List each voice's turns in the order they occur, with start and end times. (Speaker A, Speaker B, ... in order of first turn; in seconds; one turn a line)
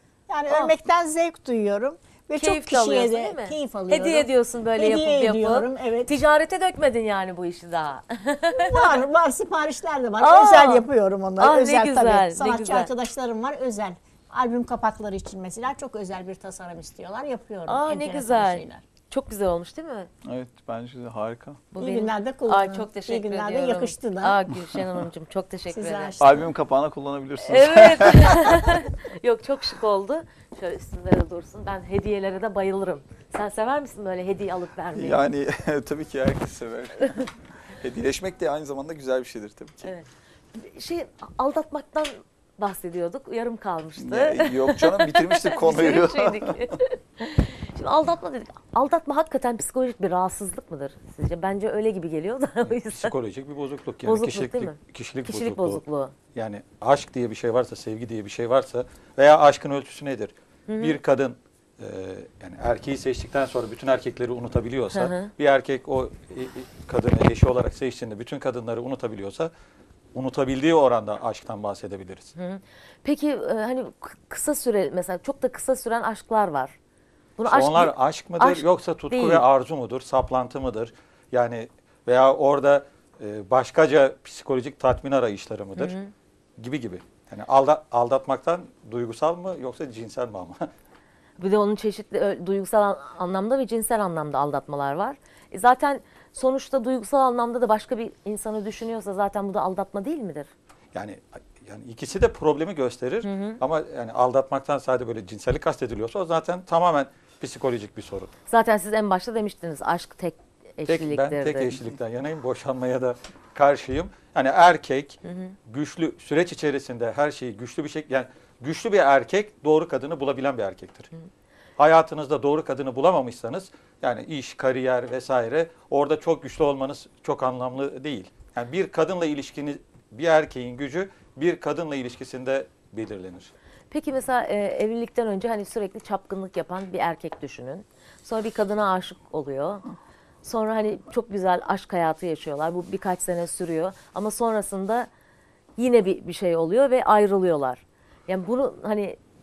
Speaker A: 0.3-6.2
Speaker B: 2.4-8.9
Speaker A: 8.5-18.8
Speaker B: 10.2-10.9
Speaker B: 11.4-12.9
Speaker B: 17.7-20.1
Speaker C: 20.3-21.6
Speaker B: 21.7-26.2
Speaker A: 21.8-24.4
Speaker A: 25.7-26.5
Speaker C: 26.2-28.5
Speaker B: 27.4-35.2
Speaker C: 35.0-39.9
Speaker B: 39.8-53.1
Speaker C: 44.0-46.6
Speaker D: 52.6-55.8
Speaker B: 54.0-56.1
Speaker D: 56.3-69.5
Speaker B: 60.7-61.0
Speaker B: 64.9-65.3
Speaker D: 70.1-72.3
Speaker B: 72.4-76.8
Speaker B: 77.4-79.5
Speaker D: 77.5-86.0
Speaker B: 85.8-86.1
Speaker D: 86.6-90.7
Speaker B: 91.4-100.5
Speaker D: 100.9-108.3
Speaker B: 103.2-103.6
Speaker B: 108.5-111.8
Speaker D: 110.9-121.1
Speaker B: 115.3-115.5
Speaker D: 121.8-133.5
Speaker B: 133.9-139.8
Speaker B: 140.4-145.1
Speaker B: 145.8-149.2